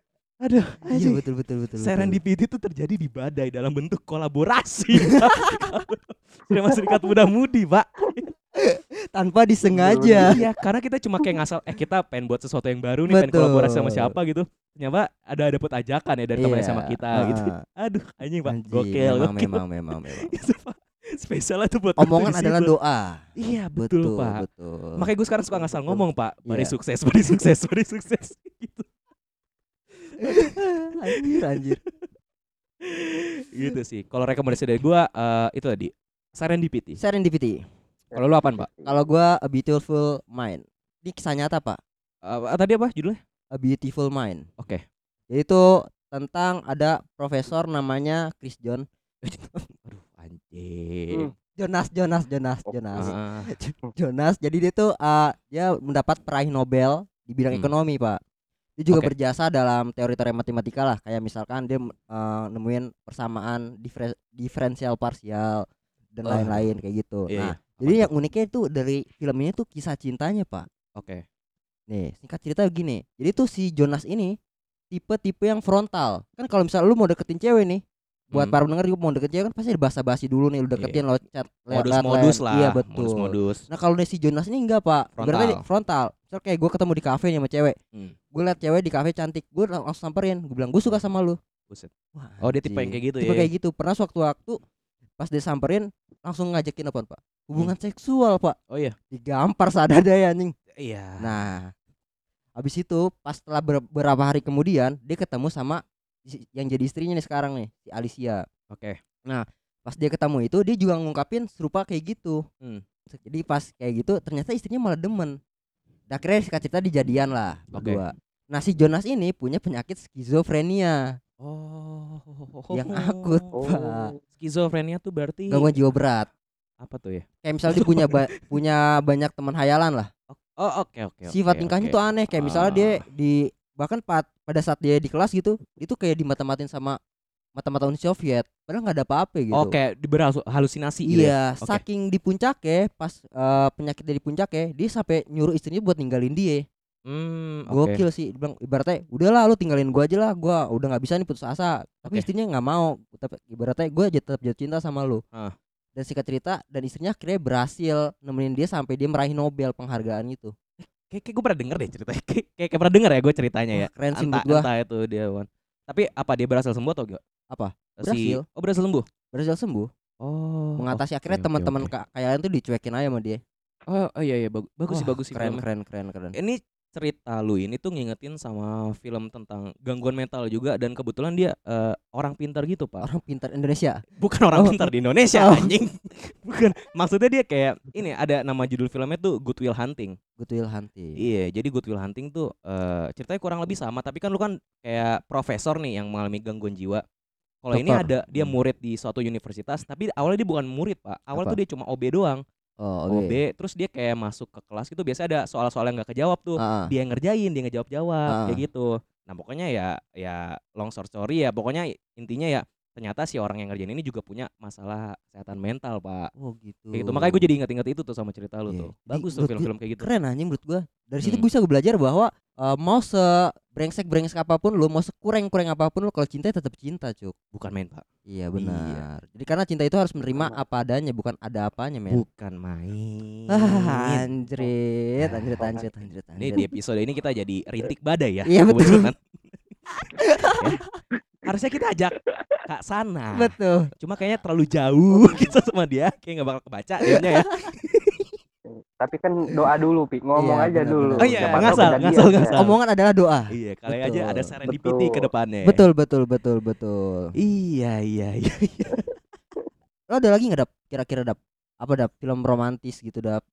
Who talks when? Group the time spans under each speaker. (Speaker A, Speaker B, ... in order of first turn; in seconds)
Speaker A: 0.4-1.2, 1.8-8.3, 9.9-19.6, 20.2-22.7, 23.4-24.4, 25.0-28.9, 30.0-32.0, 32.8-37.0, 38.1-38.7, 42.2-43.2, 44.6-44.8, 49.3-51.3, 53.0-53.5, 66.2-66.7, 67.3-68.1, 71.0-71.2, 80.8-81.0, 81.7-83.7, 85.2-85.6, 91.7-93.5, 98.7-99.0, 100.8-101.4, 108.7-109.0, 117.7-118.0, 121.4-123.5, 124.4-125.7, 126.8-128.5, 130.3-133.0, 139.5-141.8, 147.1-148.0, 160.8-167.2, 168.0-169.1, 170.2-171.9, 173.9-175.6, 176.3-183.1, 184.2-190.2, 191.2-197.0, 197.6-202.4, 203.1-216.3, 216.9-220.1, 227.5-228.0, 228.6-229.0, 232.1-234.3, 235.2-235.7, 236.4-239.2, 241.4-242.2, 242.7-248.3, 251.2-252.8, 253.5-255.8, 257.4-259.1
Speaker B: 0.9-2.2, 8.6-10.4, 13.1-14.1, 16.4-17.6, 18.5-20.3, 22.0-26.7, 30.2-31.8, 37.0-37.6, 38.9-41.8, 43.5-44.5, 45.3-48.9, 51.6-58.2, 58.8-70.7, 71.9-74.4, 74.9-87.8, 88.3-91.4, 92.1-94.6, 95.2-98.6, 99.1-100.5, 101.2-101.7, 102.6-108.5, 109.3-112.4, 113.1-115.4, 116.1-121.2, 122.7-124.1, 125.5-126.3, 127.4-130.1, 131.3-137.0, 137.6-139.8, 141.1-146.7, 147.7-155.2, 156.0-160.5, 163.8-164.7, 167.5-168.4, 169.3-169.9, 170.8-173.4, 174.9-176.3, 183.0-184.0, 184.5-185.7, 190.4-191.2, 197.7-198.6, 201.3-201.6, 202.8-203.4, 206.6-206.9, 208.3-208.6, 216.4-217.4, 218.7-227.4, 228.3-232.2, 233.5-236.7, 238.5-239.1, 240.2-240.8, 243.4-243.9, 250.4-254.5, 255.7-257.3, 260.1-263.4
Speaker C: 9.9-10.4, 38.1-38.9, 52.7-53.1, 123.5-124.2, 230.3-230.6, 242.3-242.6, 245.2-245.5, 249.0-252.6, 254.7-255.3